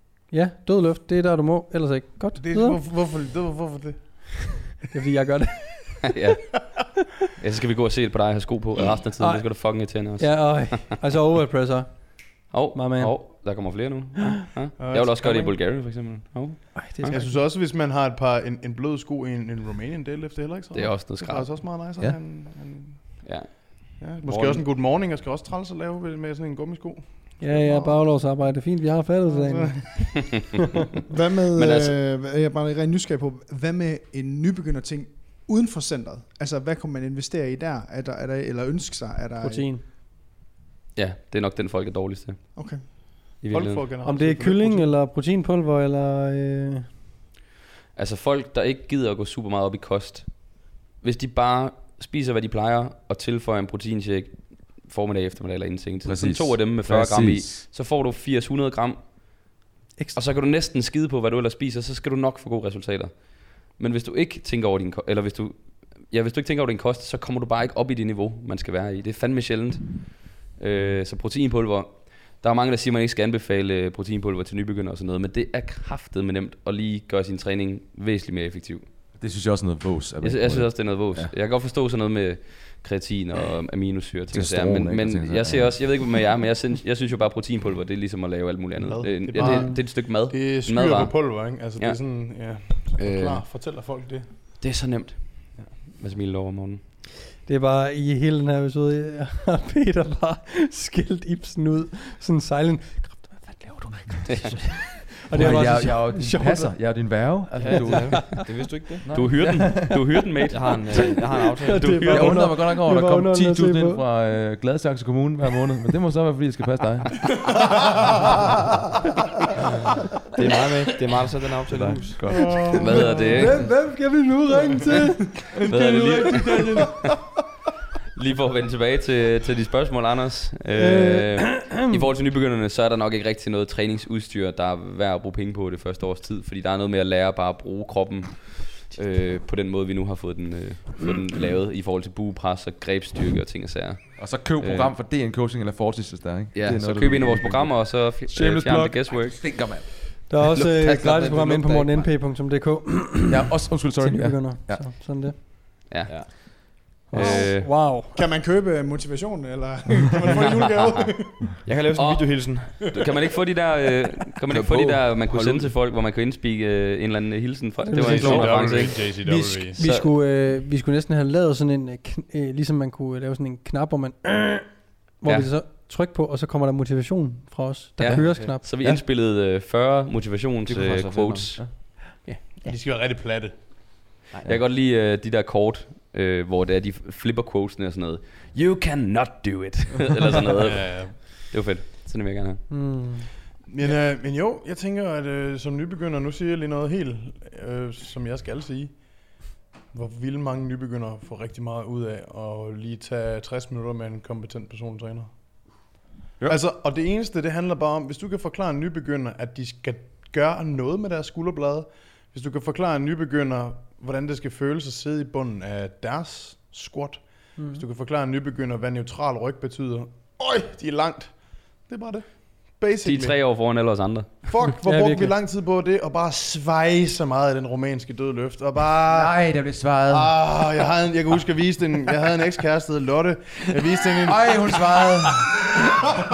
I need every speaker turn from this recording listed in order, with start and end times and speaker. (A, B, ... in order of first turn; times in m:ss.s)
0:00.3-0:02.8 A
0:02.4-0:04.7 B
0:04.8-0:06.2 A
0:06.1-0:10.9 C
0:09.2-0:13.4 A
0:12.5-0:17.2 C
0:14.8-0:15.6 B
0:16.7-0:17.4 A
0:17.1-0:27.6 B
0:20.7-0:21.7 C
0:23.2-0:24.6 C
0:27.4-0:30.3 A
0:29.5-0:30.2 B
0:31.1-0:39.7 D
0:31.5-0:32.0 C
0:39.4-0:39.8 A
0:41.0-0:42.6 C
0:42.6-0:43.0 D
0:43.4-0:43.8 C
0:43.4-0:44.9 B
0:44.0-0:46.9 A
0:48.0-1:18.9 C
0:56.0-0:57.6 E
1:19.2-1:21.3 E
1:20.2-1:32.0 C
1:24.3-1:26.0 E
1:28.8-1:34.3 B
1:29.4-1:29.8 A
1:33.0-1:33.4 C
1:34.6-1:36.8 C
1:37.4-1:46.8 A
1:44.3-1:44.6 C
1:45.3-1:48.4 E
1:47.6-1:49.2 F
1:47.8-1:48.4 A
1:49.1-1:52.6 C
1:49.4-1:49.9 E
1:50.5-1:52.1 F
1:51.6-1:54.0 A
1:52.1-1:57.6 E
2:00.3-2:02.3 F
2:01.7-2:03.0 E
2:02.5-2:06.9 A
2:02.7-2:03.2 B
2:02.7-2:03.6 C
2:05.6-2:07.1 C
2:05.7-2:06.1 E
2:08.1-2:24.9 C
2:10.7-2:11.9 A
2:24.2-2:31.4 E
2:26.5-2:29.7 C
2:30.3-2:35.4 A
2:30.9-2:32.0 F
2:33.3-2:34.9 E
2:35.9-2:37.8 C
2:36.1-2:36.3 F
2:37.1-2:38.2 A
2:38.1-2:41.6 D
2:40.4-2:40.9 C
2:41.6-2:42.9 F
2:41.9-2:49.1 C
2:44.5-2:45.7 F
2:47.8-2:58.7 A
2:47.9-2:49.8 B
2:49.7-2:50.1 C
2:58.0-3:02.0 C
2:58.1-2:58.6 F
3:00.7-3:01.8 F
3:02.6-3:03.6 B
3:04.4-3:12.6 C
3:10.6-3:11.1 B
3:12.7-3:13.3 A
3:13.7-3:25.3 B
3:26.4-3:43.4 B
3:43.0-3:44.5 C
3:44.5-3:49.3 B
3:44.8-3:45.3 A
3:49.1-3:50.7 E
3:50.1-3:54.8 B
3:54.1-3:55.8 E